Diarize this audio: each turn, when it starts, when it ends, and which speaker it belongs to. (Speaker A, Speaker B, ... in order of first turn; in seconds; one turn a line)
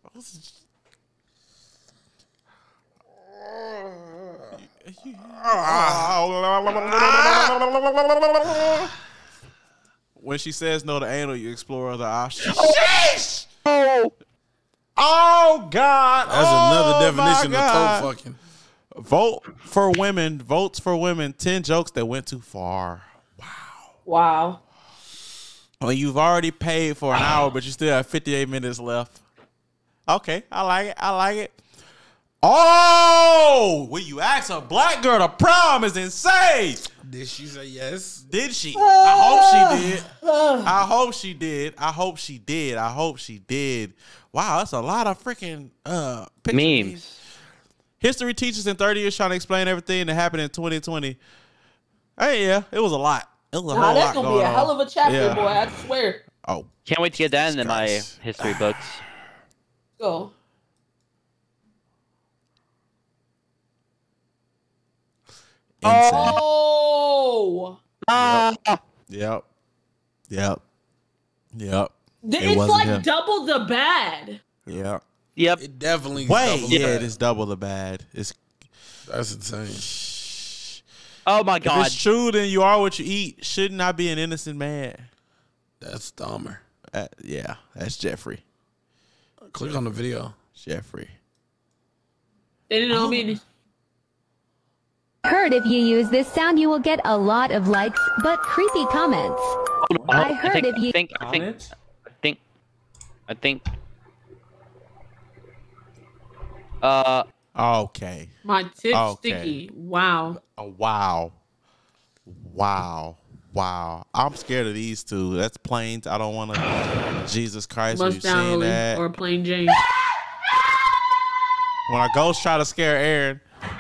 Speaker A: 0.1-0.6
Speaker B: 3.5-4.5
Speaker A: 4.6-7.6
Speaker B: 5.4-8.7
Speaker A: 8.5-8.9
Speaker A: 10.2-13.5
Speaker C: 12.4-13.0
Speaker C: 13.7-14.1
Speaker A: 15.0-18.1
Speaker B: 16.3-18.4
Speaker A: 19.0-23.8
Speaker D: 24.1-24.6
Speaker A: 25.8-29.2
Speaker A: 30.1-31.6
Speaker A: 32.4-36.9
Speaker B: 37.1-38.2
Speaker A: 38.2-40.1
Speaker D: 38.8-40.7
Speaker A: 40.6-47.0
Speaker C: 46.5-47.2
Speaker A: 48.0-51.2
Speaker A: 52.2-55.4
Speaker D: 53.7-56.2
Speaker A: 56.4-56.7
Speaker C: 56.9-59.0
Speaker A: 57.4-58.6
Speaker D: 60.0-60.3
Speaker A: 65.8-66.4
Speaker D: 65.9-67.8
Speaker C: 65.9-66.4
Speaker C: 68.1-68.8
Speaker A: 68.1-68.5
Speaker A: 69.1-69.5
Speaker A: 70.3-70.6
Speaker A: 71.6-73.0
Speaker D: 72.2-74.4
Speaker A: 74.7-75.0
Speaker B: 75.6-77.1
Speaker A: 76.2-78.4
Speaker B: 79.1-80.0
Speaker C: 81.3-82.0
Speaker A: 81.7-85.1
Speaker B: 85.8-86.6
Speaker A: 86.9-88.4
Speaker B: 89.5-90.3
Speaker A: 90.6-91.1
Speaker D: 92.7-93.4
Speaker B: 93.0-93.2
Speaker E: 95.2-101.0
Speaker C: 99.8-101.7
Speaker C: 103.3-103.6
Speaker C: 106.8-107.2
Speaker A: 107.6-108.3
Speaker D: 108.4-110.4
Speaker A: 108.9-109.5
Speaker A: 110.4-111.3
Speaker A: 112.3-116.7
Speaker A: 117.2-119.0
Speaker D: 117.9-119.8
Speaker A: 121.9-123.4